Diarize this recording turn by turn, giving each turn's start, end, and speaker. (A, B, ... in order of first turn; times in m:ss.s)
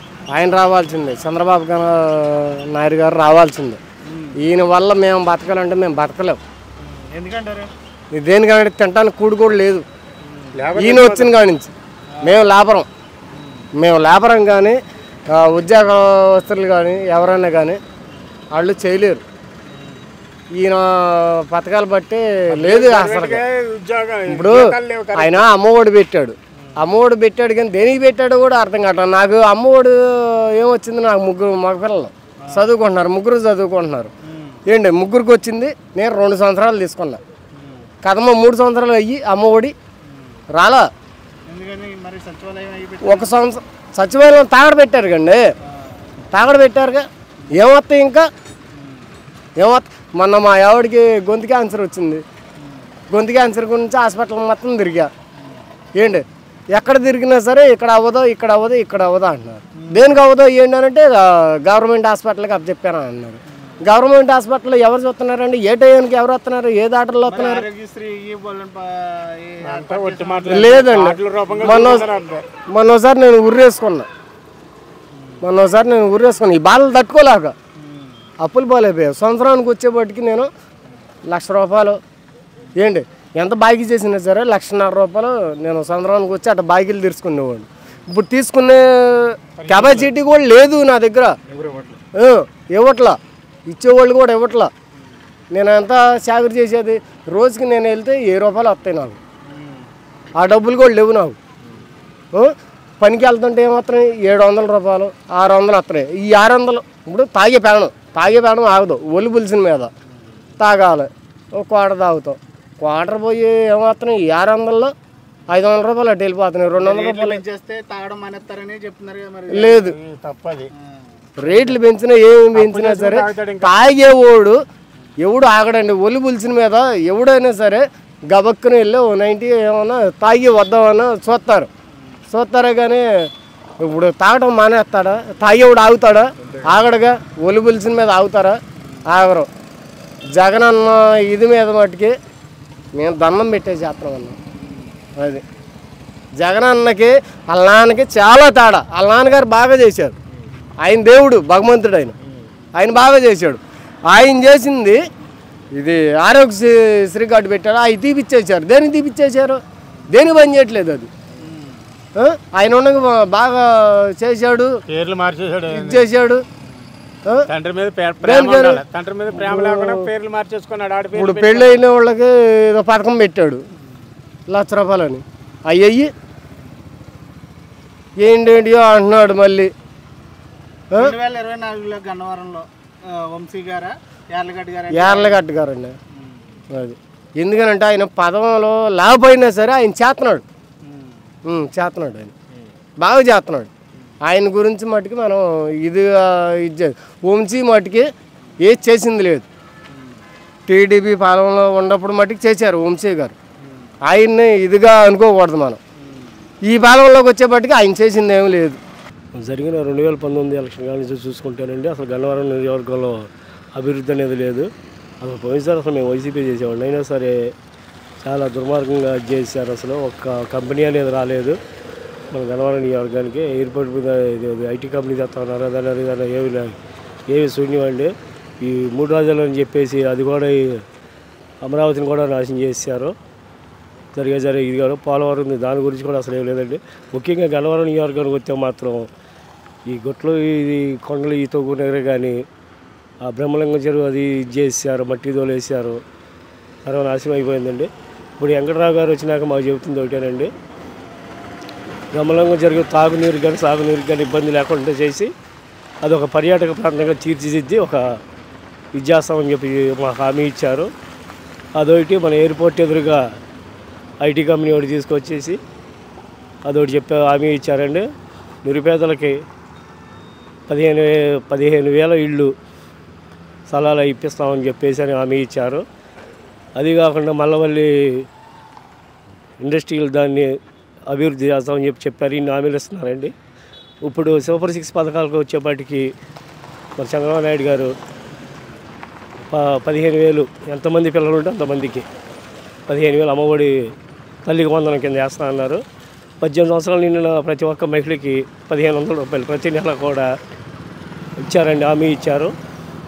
0:00.3-0:03.8 A
0:04.1-0:04.4 B
0:04.4-0:06.4 A
0:06.8-0:07.7 B
0:08.1-0:09.8 A
0:10.2-0:10.5 B
0:10.5-0:11.3 C
0:10.7-0:11.7 A
0:12.2-0:12.9 A
0:13.3-0:13.6 B
0:13.8-0:14.8 A
0:15.3-0:17.8 A
0:18.5-0:19.2 A
0:19.7-0:20.0 B
0:20.6-0:23.4 A
0:22.5-0:25.4 C
0:24.3-0:34.1 A
0:34.3-0:34.6 B
0:34.7-0:37.2 A
0:37.5-0:37.8 B
0:38.0-0:39.7 A
0:40.5-0:40.9 A
0:41.5-0:43.3 B
0:43.0-0:45.4 A
0:46.3-0:48.2 A
0:49.6-0:52.2 A
0:53.1-0:55.1 A
0:56.0-1:07.6 A
1:07.2-1:10.7 B
1:09.6-1:12.4 C
1:10.5-1:12.1 A
1:11.5-1:11.8 B
1:12.7-1:14.1 A
1:15.4-1:17.5 A
1:17.8-1:18.1 B
1:18.4-1:20.5 A
1:21.3-1:22.0 A
1:22.8-1:31.4 A
1:29.6-1:30.1 C
1:31.5-1:32.0 B
1:32.2-1:33.2 A
1:33.7-1:34.7 A
1:35.5-1:39.2 A
1:39.4-1:39.8 B
1:40.4-1:41.4 A
1:42.3-1:49.9 A
1:50.6-1:54.9 A
1:55.5-1:57.4 A
1:56.8-1:59.7 B
1:59.5-1:59.9 A
1:59.6-2:00.7 C
2:01.4-2:04.6 A
2:01.4-2:01.8 C
2:02.5-2:03.7 C
2:05.2-2:11.7 A
2:12.3-2:13.3 A
2:13.8-2:19.5 A
2:20.3-2:22.2 A
2:23.0-2:24.4 A
2:25.2-2:25.4 A
2:26.4-2:30.2 A
2:30.8-2:32.1 A
2:32.7-2:35.0 A
2:35.7-2:41.1 A
2:41.4-2:41.8 B
2:42.2-2:44.8 A
2:44.9-2:46.1 C
2:45.7-2:46.4 A
2:47.5-2:51.8 C
2:48.2-2:50.1 A
2:51.1-2:53.6 A
2:54.5-2:56.1 A
2:58.2-2:59.7 A
3:00.9-3:05.4 B
3:04.9-3:06.0 A
3:06.7-3:10.4 A
3:10.8-3:11.1 B
3:11.4-3:12.3 A
3:13.0-3:13.7 A
3:14.2-3:19.4 A
3:19.9-3:20.2 B
3:20.7-3:23.3 A
3:24.0-3:25.8 A
3:26.0-3:26.3 B
3:26.7-3:28.8 A
3:29.4-3:34.7 D
3:35.2-3:37.5 D
3:38.2-3:41.6 D
3:42.3-3:46.7 D
3:47.3-3:50.8 D
3:51.6-3:53.1 D
3:54.1-3:59.1 D
3:59.9-4:02.4 D
4:03.2-4:06.0 D
4:06.8-4:10.5 D
4:12.1-4:15.3 D
4:16.0-4:18.2 D
4:18.9-4:20.9 D
4:21.8-4:23.3 D
4:24.2-4:25.6 D
4:26.6-4:28.1 D
4:28.6-4:29.4 D
4:30.7-4:32.5 D
4:33.7-4:35.8 D
4:36.8-4:38.3 D
4:39.6-4:40.6 D
4:41.1-4:43.3 D
4:44.0-4:46.1 D
4:47.0-4:47.9 D
4:49.5-4:52.0 D
4:52.9-4:53.7 D
4:54.4-4:55.8 D
4:56.4-5:00.3 D
5:01.4-5:02.5 D